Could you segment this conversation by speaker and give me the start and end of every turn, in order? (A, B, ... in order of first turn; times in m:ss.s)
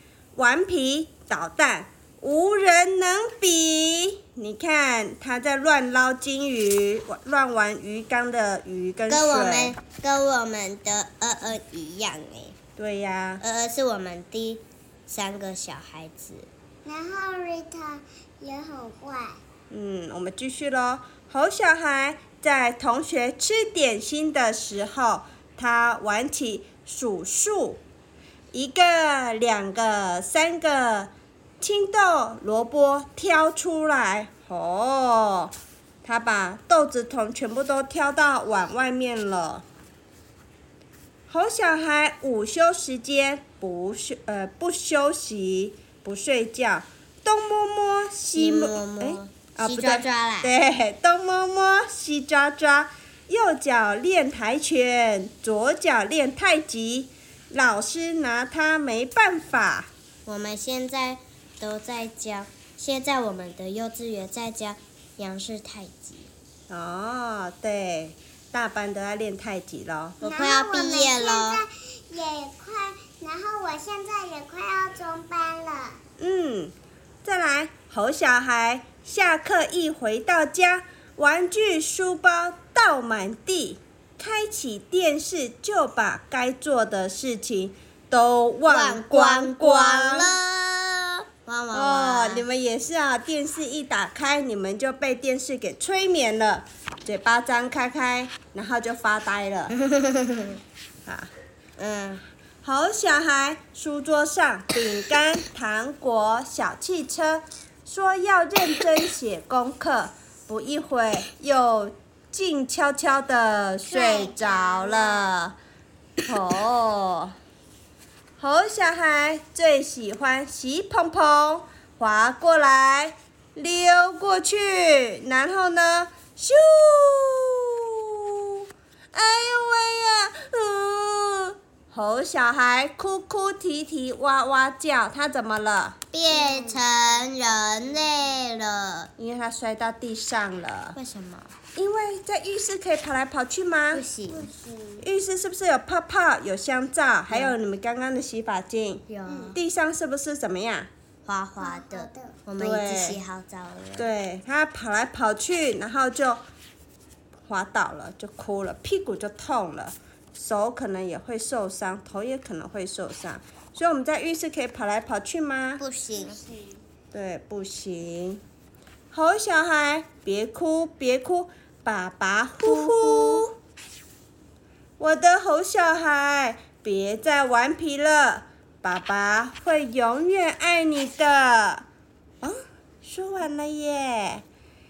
0:00.3-0:09.8 A
0:09.1-0:12.6 B
0:12.8-0:13.4 A
0:13.4-0:16.5 B
0:16.8-0:19.4 C
0:19.7-0:27.8 A
0:28.5-0:35.5 A
0:36.0-0:39.6 A
0:41.3-0:59.9 A
0:48.3-0:50.5 B
1:00.2-1:06.3 B
1:06.7-1:10.2 A
1:10.2-1:16.0 C
1:10.2-1:11.6 B
1:16.2-1:30.3 A
1:28.7-1:32.4 B
1:31.7-1:39.7 A
1:39.7-1:40.6 B
1:41.0-1:41.3 A
1:41.8-1:42.2 B
1:42.6-1:55.6 A
1:53.9-1:54.3 C
1:54.0-1:55.3 B
1:56.2-1:57.3 A
1:58.4-2:07.8 A
2:09.1-2:16.0 A
2:16.1-2:19.1 B
2:16.3-2:16.8 C
2:19.2-2:21.0 A
2:20.9-2:21.5 B
2:21.7-2:24.0 A
2:23.9-2:24.5 B
2:24.3-2:25.0 C
2:25.0-2:29.0 A
2:27.3-2:27.6 B
2:29.1-2:29.6 B
2:29.2-2:29.6 C
2:29.5-2:30.9 A
2:31.2-2:34.1 B
2:31.6-2:32.4 C
2:32.6-2:33.2 A
2:34.0-2:36.4 A
2:37.5-2:45.8 A
2:45.8-2:46.4 B
2:46.1-2:46.8 C
2:47.1-2:48.4 A
2:49.1-2:53.5 A
2:52.6-2:53.4 B
2:55.0-3:01.8 A
3:02.4-3:04.4 A